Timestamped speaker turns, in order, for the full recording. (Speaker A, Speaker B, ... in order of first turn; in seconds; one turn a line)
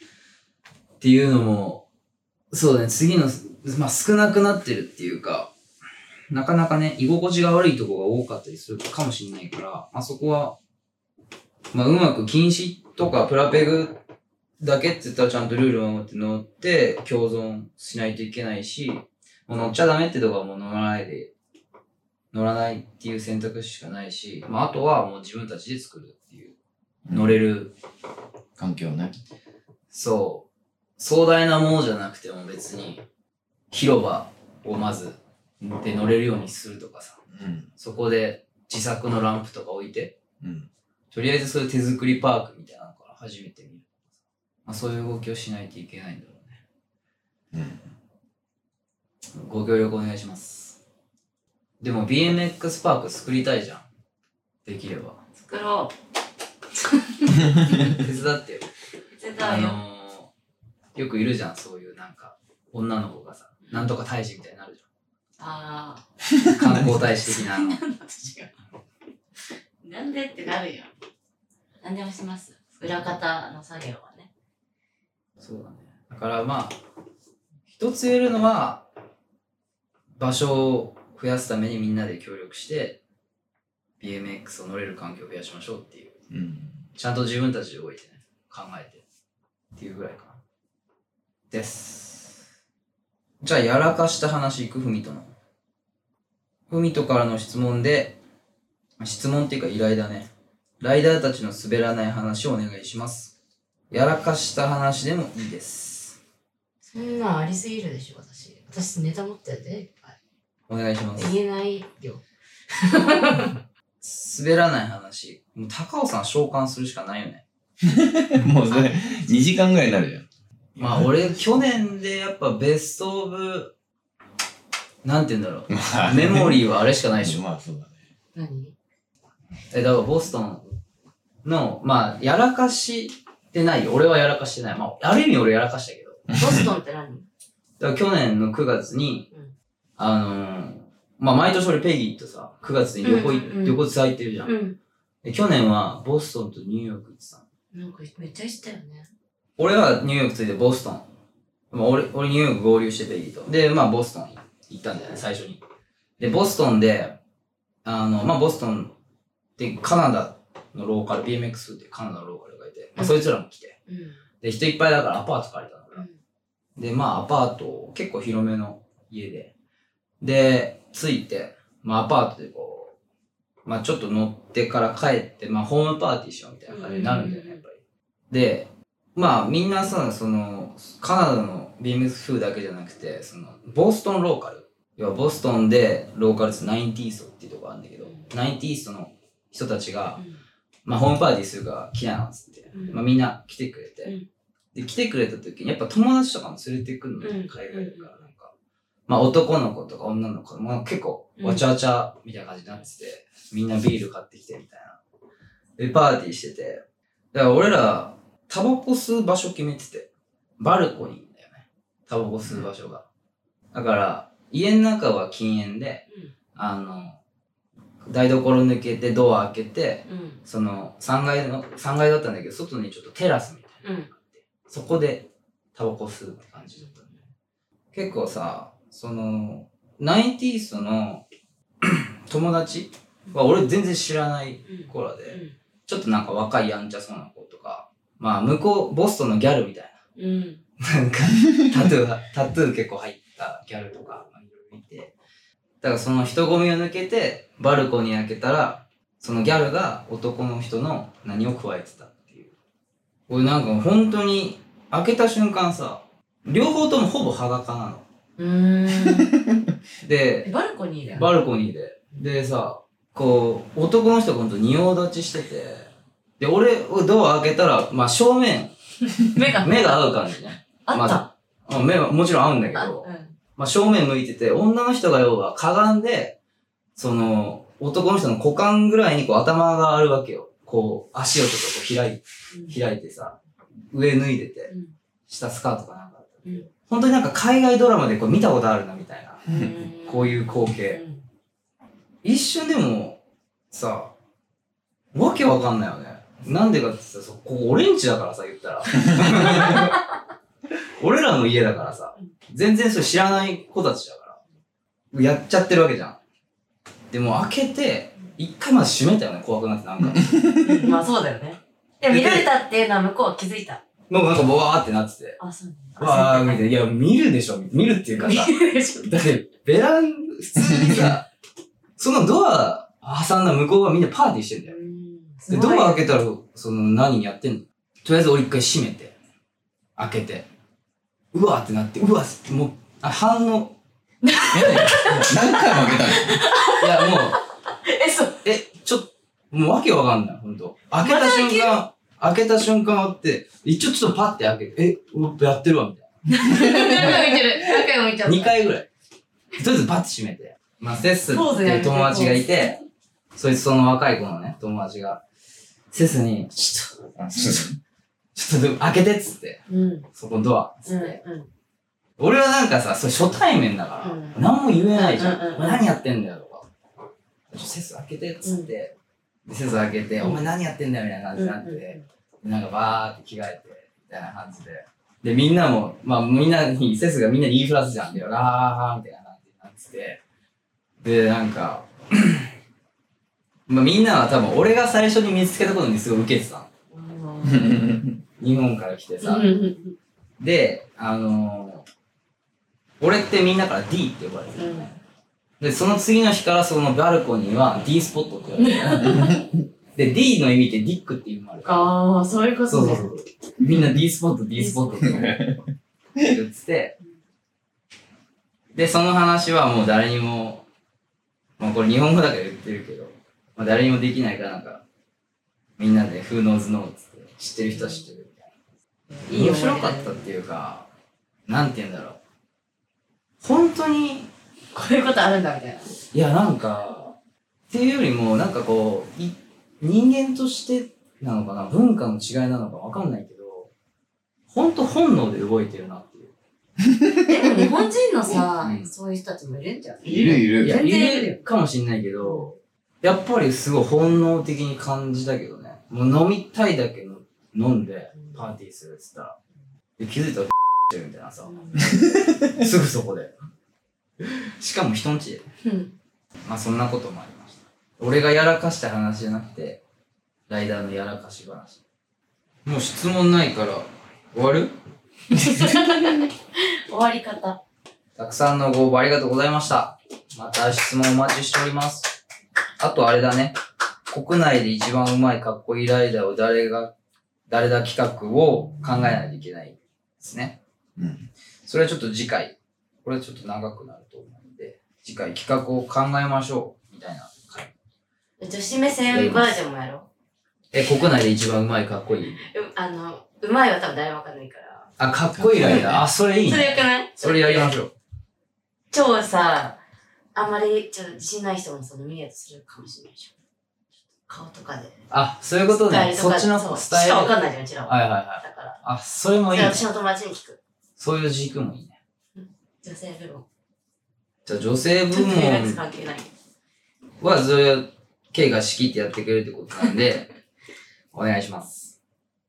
Speaker A: 1.0-1.9
Speaker A: 2.5-5.5
Speaker A: 6.3-10.6
Speaker A: 11.7-14.0
Speaker A: 14.6-21.3
Speaker A: 22.3-26.6
Speaker B: 27.1-27.4
Speaker A: 27.1-27.8
Speaker B: 28.6-29.1
Speaker A: 29.9-30.5
Speaker A: 31.0-33.0
Speaker A: 33.7-37.2
Speaker B: 37.3-37.7
Speaker A: 37.8-40.1
Speaker B: 40.4-40.7
Speaker A: 41.1-44.0
Speaker A: 44.6-46.6
Speaker B: 47.5-47.8
Speaker A: 49.4-50.8
Speaker A: 51.8-53.9
Speaker A: 54.6-55.2
Speaker C: 55.4-55.9
Speaker C: 56.8-57.7
Speaker B: 57.6-58.0
Speaker A: 57.8-58.7
Speaker C: 59.2-59.8
Speaker A: 59.4-60.3
Speaker A: 61.0-64.8
Speaker C: 65.4-66.0
Speaker B: 66.5-67.0
Speaker A: 66.5-67.8
Speaker C: 67.2-68.5
Speaker C: 69.8-70.9
Speaker C: 71.8-74.3
Speaker A: 75.4-76.8
Speaker A: 77.7-78.8
Speaker A: 80.2-83.0
Speaker A: 84.0-86.2
Speaker B: 86.3-86.8
Speaker A: 87.0-89.0
Speaker A: 89.8-90.4
Speaker A: 91.5-92.4
Speaker A: 93.4-95.3
Speaker A: 96.7-98.2
Speaker A: 99.0-100.3
Speaker A: 100.8-103.3
Speaker A: 103.9-106.2
Speaker C: 106.9-110.2
Speaker A: 110.7-111.4
Speaker C: 111.2-112.2
Speaker C: 112.7-113.5
Speaker A: 114.0-117.4
Speaker B: 117.8-121.7
Speaker A: 120.8-123.7
Speaker A: 125.0-127.4
Speaker B: 125.7-126.6
Speaker B: 127.2-128.0
Speaker C: 128.3-128.8
Speaker A: 129.7-130.7
Speaker A: 131.4-136.2
Speaker B: 136.3-136.7
Speaker C: 136.3-137.2
Speaker A: 137.8-139.3
Speaker A: 140.0-144.5
Speaker C: 143.0-143.8
Speaker C: 144.4-144.8
Speaker A: 145.2-147.4
Speaker C: 147.7-149.1
Speaker A: 149.6-151.1
Speaker A: 151.7-155.6
Speaker A: 156.2-157.2
Speaker A: 157.8-158.9
Speaker A: 159.6-163.8
Speaker C: 163.9-164.2
Speaker A: 164.4-166.0
Speaker A: 166.8-169.5
Speaker A: 170.2-172.9
Speaker A: 173.7-177.8
Speaker C: 176.7-177.6
Speaker A: 178.3-190.2
Speaker A: 190.8-194.1
Speaker C: 192.7-193.0
Speaker A: 194.8-198.5
Speaker C: 197.2-198.1
Speaker A: 199.1-205.0
Speaker C: 201.4-201.6
Speaker A: 205.8-206.8
Speaker A: 207.3-213.1
Speaker A: 213.7-216.0
Speaker A: 216.6-217.2
Speaker A: 218.1-227.2
Speaker C: 220.1-220.4
Speaker C: 223.8-224.1
Speaker A: 227.9-231.2
Speaker A: 231.8-240.0
Speaker C: 234.7-235.6
Speaker C: 240.2-240.6
Speaker A: 240.8-245.1
Speaker A: 245.8-252.5
Speaker A: 253.3-258.1
Speaker C: 258.4-259.4
Speaker B: 259.0-259.6
Speaker A: 260.0-260.5
Speaker C: 260.4-261.3
Speaker A: 261.1-265.9
Speaker A: 266.4-268.7
Speaker C: 269.1-270.2
Speaker A: 269.6-276.4
Speaker C: 270.9-271.3
Speaker C: 272.8-273.4
Speaker A: 277.0-283.4
Speaker C: 282.5-282.8
Speaker A: 283.9-284.7
Speaker A: 285.3-289.4
Speaker C: 289.5-291.2
Speaker A: 290.1-291.0
Speaker A: 292.2-293.2
Speaker A: 293.7-294.1
Speaker A: 295.1-300.0
Speaker B: 299.0-299.7
Speaker C: 299.6-299.8
Speaker A: 301.0-304.4
Speaker A: 305.1-306.2
Speaker A: 307.1-310.3
Speaker B: 310.0-310.9
Speaker C: 310.6-313.8
Speaker A: 312.1-312.5
Speaker A: 314.1-315.4
Speaker C: 315.4-316.7
Speaker A: 316.0-321.3
Speaker C: 318.2-319.1
Speaker B: 320.6-321.1
Speaker A: 322.0-324.8
Speaker C: 324.6-326.1
Speaker A: 325.5-329.1
Speaker A: 330.0-330.5
Speaker A: 331.3-333.8
Speaker C: 334.2-338.4
Speaker B: 334.5-336.4
Speaker A: 336.8-337.4
Speaker A: 338.4-347.4
Speaker C: 341.0-341.8
Speaker C: 346.3-348.6
Speaker A: 348.2-348.9
Speaker A: 349.6-352.8
Speaker C: 351.3-352.7
Speaker A: 353.4-355.2
Speaker A: 355.9-357.7
Speaker B: 357.3-357.7
Speaker A: 358.4-359.6
Speaker C: 359.7-360.1
Speaker A: 360.1-361.2
Speaker C: 360.9-361.5
Speaker A: 362.2-366.7
Speaker C: 364.0-364.4
Speaker C: 364.9-365.8
Speaker A: 367.5-368.9
Speaker C: 368.4-368.7
Speaker A: 369.5-380.2
Speaker C: 371.4-372.0
Speaker A: 381.0-382.5
Speaker A: 383.7-386.7
Speaker C: 386.9-387.8
Speaker B: 387.4-388.2
Speaker A: 388.4-389.5
Speaker C: 389.2-390.0
Speaker A: 390.4-391.9
Speaker A: 393.0-394.9
Speaker C: 394.6-394.9
Speaker A: 395.6-399.2
Speaker C: 398.6-399.4
Speaker B: 399.1-399.6
Speaker A: 399.9-401.8
Speaker C: 401.6-403.1
Speaker A: 402.7-405.3
Speaker B: 403.7-404.0
Speaker C: 404.6-405.3
Speaker B: 405.0-405.6
Speaker A: 406.2-406.9
Speaker A: 408.7-410.6
Speaker A: 411.6-414.8
Speaker A: 415.8-418.5
Speaker C: 417.7-418.1
Speaker C: 419.1-420.3
Speaker A: 419.3-420.9
Speaker A: 421.5-422.2
Speaker A: 423.4-424.3
Speaker C: 424.7-425.9
Speaker A: 426.1-427.2
Speaker A: 427.7-433.7
Speaker A: 434.5-436.3
Speaker B: 436.8-437.7
Speaker C: 437.3-441.4
Speaker A: 438.6-438.9
Speaker B: 440.1-440.8
Speaker A: 440.6-449.4
Speaker C: 442.2-442.6
Speaker C: 448.2-448.4
Speaker A: 450.0-453.4
Speaker C: 451.4-451.8
Speaker B: 451.8-452.5
Speaker A: 454.6-455.5
Speaker C: 455.6-455.9
Speaker A: 456.5-459.8
Speaker A: 460.5-461.8
Speaker A: 462.6-464.7
Speaker C: 465.3-467.6
Speaker B: 465.4-465.8
Speaker A: 468.2-472.1
Speaker A: 472.8-473.6
Speaker A: 474.1-476.9
Speaker A: 477.5-480.6
Speaker B: 481.0-481.3
Speaker A: 481.6-487.7
Speaker C: 488.4-490.1
Speaker A: 489.1-489.6
Speaker A: 490.7-492.4
Speaker C: 492.4-494.9
Speaker A: 495.0-497.9
Speaker B: 495.4-496.1
Speaker C: 495.6-497.7
Speaker C: 498.9-499.8
Speaker C: 500.4-503.3
Speaker C: 504.3-505.0
Speaker A: 505.1-507.4
Speaker C: 505.7-508.8
Speaker A: 507.9-509.8
Speaker C: 509.5-510.6
Speaker A: 511.0-512.0
Speaker C: 512.4-513.5
Speaker A: 514.5-515.8
Speaker C: 515.1-516.3
Speaker A: 517.2-520.3
Speaker A: 521.1-522.0